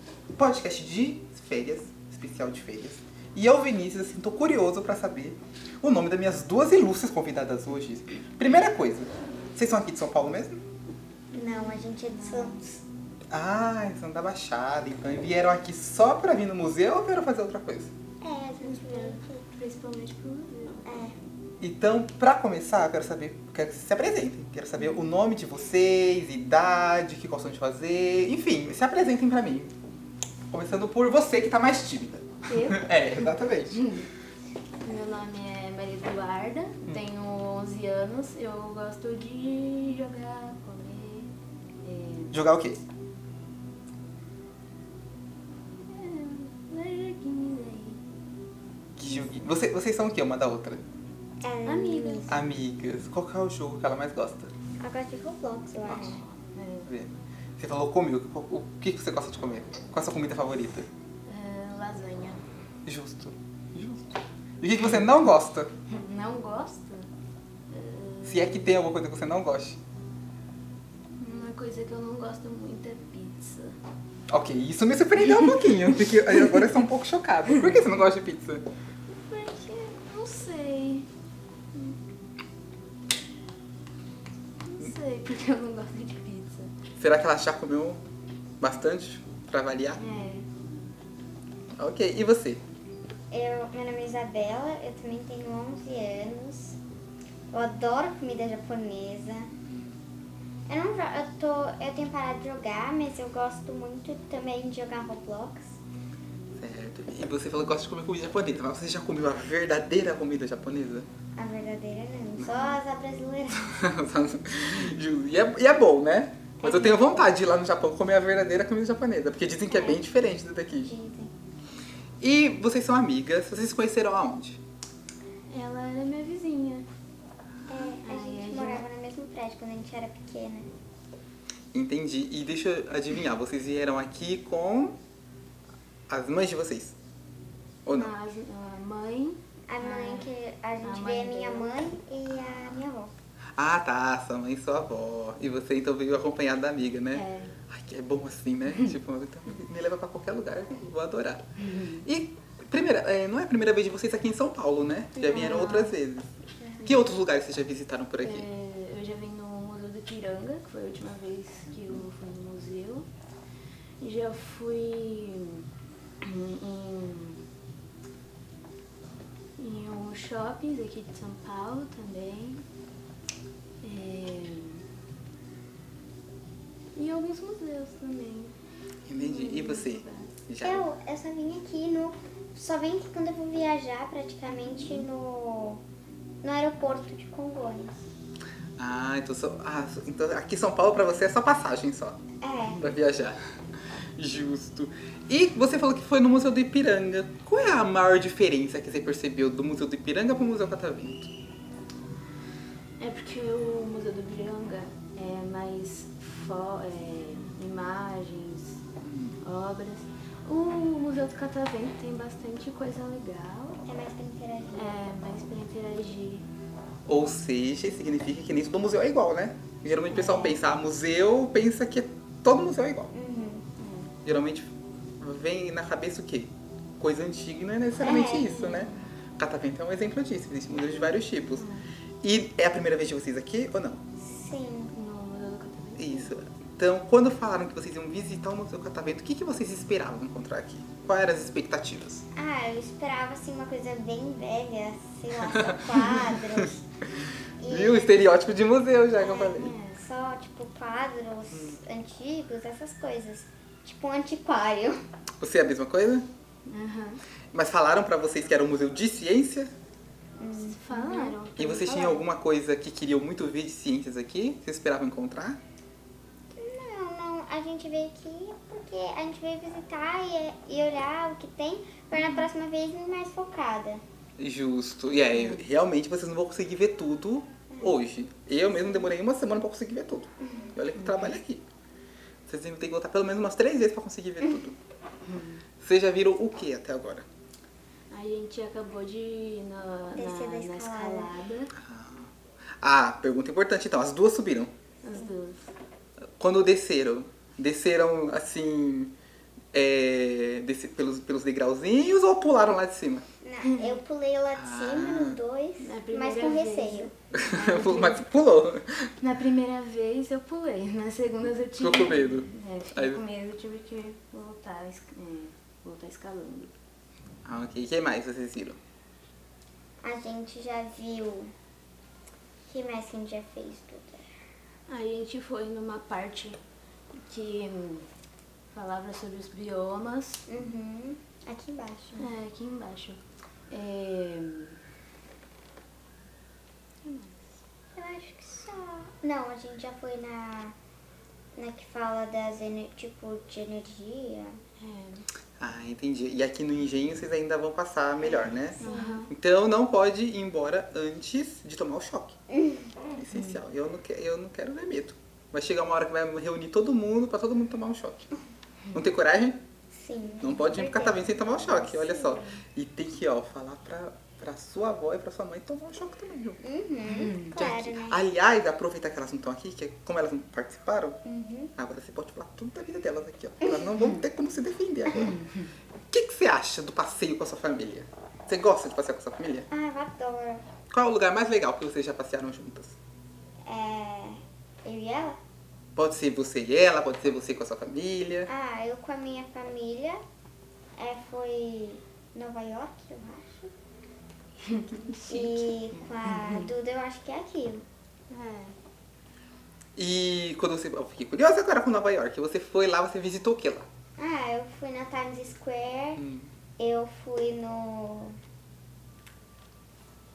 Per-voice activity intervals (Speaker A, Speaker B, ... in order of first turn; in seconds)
Speaker A: 0.4-10.6, 13.3-17.9, 21.6-29.7, 30.5-33.8, 42.3-42.8, 49.0-50.8, 52.3-54.5, 55.8-56.3, 56.9-60.9, 62.9-65.7, 68.2-69.8, 74.3-78.7, 87.0-88.0, 88.6-90.0, 91.8-92.6, 106.6-111.1, 112.4-112.8, 113.6-120.9, 122.2-124.6, 131.7-135.0, 136.1-137.0, 137.8-138.2, 142.5-142.8, 143.6-151.4, 152.0-158.5, 179.1-180.9, 188.8-192.2, 192.8-193.4, 194.2-201.3, 209.0-209.4, 217.1-223.1, 224.2-231.7, 232.2-234.0, 236.0-242.2, 245.5-246.7, 247.7-249.7, 251.5-251.8, 255.4-256.3, 257.5-259.7, 261.6-265.6, 272.1-272.5, 274.4-281.6, 282.5-284.8, 285.8-287.3, 291.7-294.7, 296.4-299.1, 299.7-303.2, 304.5-305.4, 307.3-309.1, 311.7-313.2, 317.4-318.8, 345.6-352.3, 353.1-358.3, 358.9-359.6, 360.4-366.6, 367.6-371.2, 371.8-375.4, 376.1-379.7, 380.9-382.9, 385.9-388.5, 399.9-403.9, 406.2-406.5
Speaker B: 11.3-12.6, 18.6-20.9, 32.5-32.9, 33.7-34.1, 34.8-41.3, 41.8-42.4, 45.9-48.0, 51.6-52.5, 56.5-56.9, 61.3-62.4, 65.9-67.1, 67.7-68.7, 71.2-73.7, 75.3-75.7, 79.2-81.1, 84.7-86.7, 90.0-90.5, 125.5-126.8, 127.8-128.8, 137.9-140.3, 140.8-141.7, 147.1-147.5, 151.7-152.1, 155.2-156.0, 156.8-157.2, 158.2-163.1, 164.0-165.7, 166.2-167.4, 169.6-172.6, 173.8-174.8, 176.9-178.5, 179.2-180.3, 203.0-208.8, 209.4-213.8, 214.8-216.5, 220.1-220.6, 223.8-224.1, 228.4-229.0, 231.6-231.8, 234.9-236.3, 249.4-250.0, 256.6-257.2, 260.6-262.2, 275.3-275.6, 280.9-281.4, 285.2-285.6, 288.1-291.7, 295.0-295.7, 303.6-304.0, 305.8-308.3, 309.2-316.7, 324.9-326.6, 327.3-328.1, 328.7-330.4, 332.2-334.8, 337.0-337.4, 344.8-345.2, 348.8-349.3, 353.3-353.6, 361.8-362.6, 367.0-367.6, 375.2-375.6, 394.7-395.7, 396.3-396.6, 398.3-398.8
Speaker C: 11.3-12.8, 18.2-19.5, 20.9-21.1, 51.4-52.3, 54.8-56.2, 93.3-96.8, 97.5-99.5, 100.7-105.8, 111.3-113.7, 116.6-117.2, 119.7-120.0, 120.8-121.3, 127.7-130.7, 139.7-143.1, 155.2-155.8, 180.6-185.8, 186.4-188.0, 192.4-192.8, 213.8-215.1, 223.1-223.7, 228.0-228.6, 234.2-234.9, 242.3-246.8, 247.6-248.3, 249.2-255.0, 260.4-261.4, 266.5-274.0, 277.7-278.0, 280.4-280.7, 290.1-291.3, 303.4-307.1, 320.0-321.5, 322.7-324.2, 330.5-332.3, 337.9-340.7, 341.5-344.6, 348.2-349.2, 352.5-352.8, 359.9-361.7, 366.6-368.2, 371.2-371.7, 373.6-373.9, 379.7-380.6, 383.6-385.4, 388.5-390.2, 391.0-393.7, 395.1-397.8, 404.2-406.2, 406.8-408.4